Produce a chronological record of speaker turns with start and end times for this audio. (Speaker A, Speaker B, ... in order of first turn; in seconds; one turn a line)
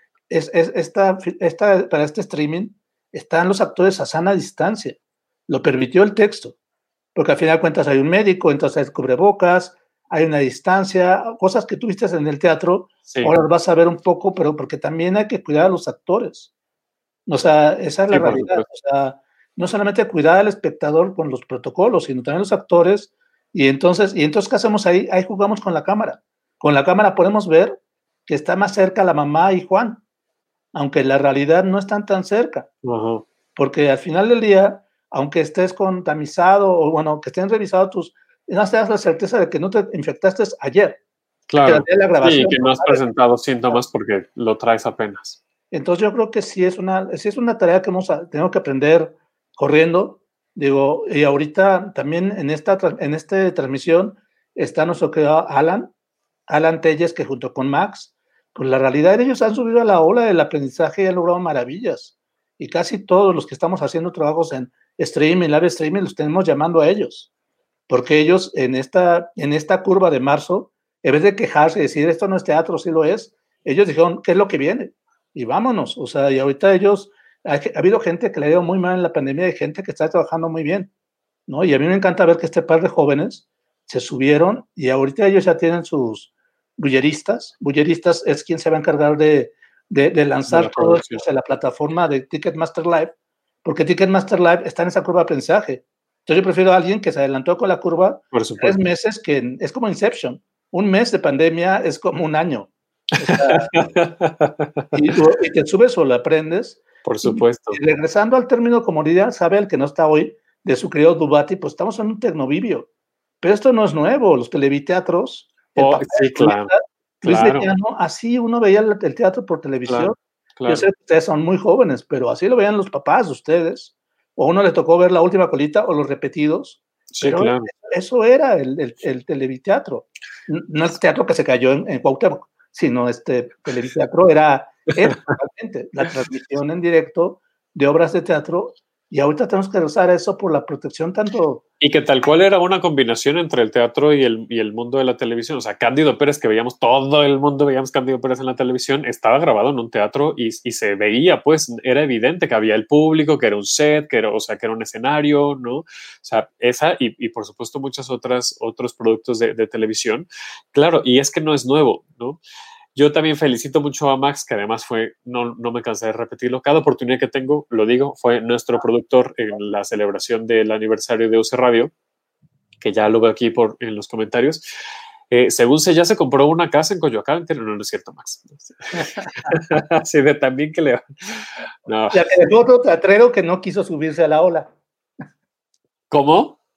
Speaker A: 0.3-6.6
Speaker A: 7.2-16.5
Speaker A: 17.3-30.0
Speaker B: 18.1-18.6
Speaker A: 30.7-32.7
Speaker B: 32.8-33.3
Speaker A: 33.6-41.0
Speaker B: 41.5-45.4
Speaker A: 41.6-43.0
Speaker A: 45.7-55.9
Speaker A: 56.5-67.3
Speaker A: 67.9-80.9
Speaker A: 81.5-103.7
Speaker B: 90.5-91.2
Speaker B: 98.3-98.8
Speaker B: 103.2-105.0
Speaker A: 104.9-112.9
Speaker B: 107.0-107.8
Speaker A: 113.4-141.6
Speaker B: 115.8-116.7
Speaker B: 117.2-117.7
Speaker B: 119.9-120.8
Speaker B: 127.2-127.7
Speaker B: 141.8-162.4
Speaker B: 162.9-171.9
Speaker B: 172.8-174.6
Speaker B: 175.3-182.3
Speaker A: 182.1-184.7
Speaker B: 186.1-186.6